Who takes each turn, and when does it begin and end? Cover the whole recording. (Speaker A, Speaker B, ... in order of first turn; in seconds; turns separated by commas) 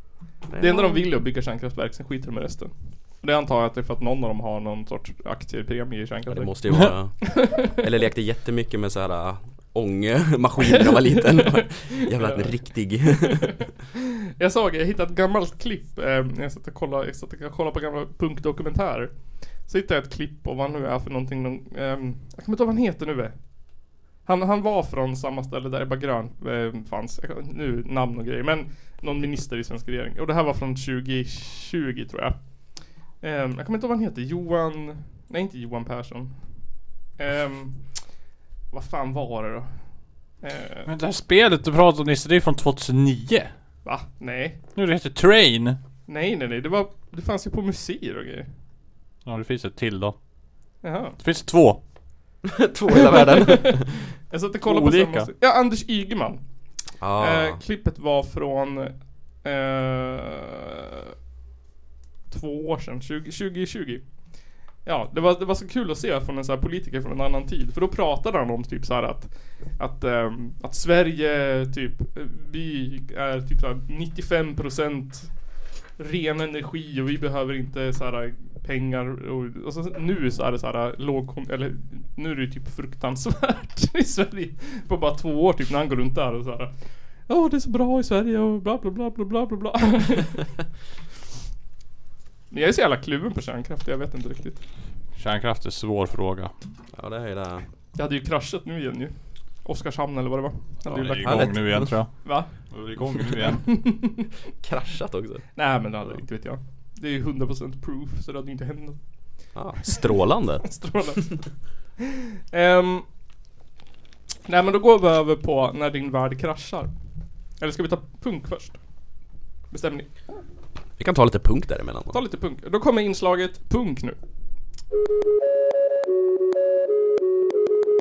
Speaker A: 0.5-1.1, Speaker B: 0.6-7.8, Speaker A: 6.3-13.6, Speaker B: 10.7-12.5, Speaker B: 13.2-19.1, Speaker B: 19.7-23.4, Speaker B: 24.3-32.4, Speaker B: 33.2-36.3, Speaker B: 37.2-37.8, Speaker B: 38.7-39.7, Speaker B: 40.4-40.9, Speaker C: 40.9-43.5, Speaker B: 43.9-44.6, Speaker C: 44.8-45.8, Speaker B: 46.1-48.5, Speaker C: 49.2-50.2, Speaker B: 50.8-51.2, Speaker C: 51.2-51.8, Speaker A: 52.5-54.0, Speaker B: 53.1-56.4, Speaker C: 54.6-55.3, Speaker A: 57.0-57.6, Speaker B: 57.2-61.1, Speaker B: 62.3-64.0, Speaker B: 64.8-75.3, Speaker B: 76.0-86.7, Speaker B: 87.3-90.4, Speaker B: 92.5-94.6, Speaker C: 95.2-96.5, Speaker A: 96.9-97.7, Speaker B: 98.0-99.1, Speaker B: 99.6-101.7, Speaker C: 100.8-102.1, Speaker A: 101.2-102.0, Speaker B: 102.2-102.5, Speaker C: 102.7-103.6, Speaker B: 103.4-104.3, Speaker A: 104.6-105.5, Speaker B: 105.5-109.0, Speaker A: 109.5-110.7, Speaker B: 110.6-111.4, Speaker B: 112.5-113.0, Speaker B: 114.5-116.9, Speaker B: 117.6-118.8, Speaker B: 119.7-120.1, Speaker A: 121.0-122.2, Speaker B: 122.1-124.2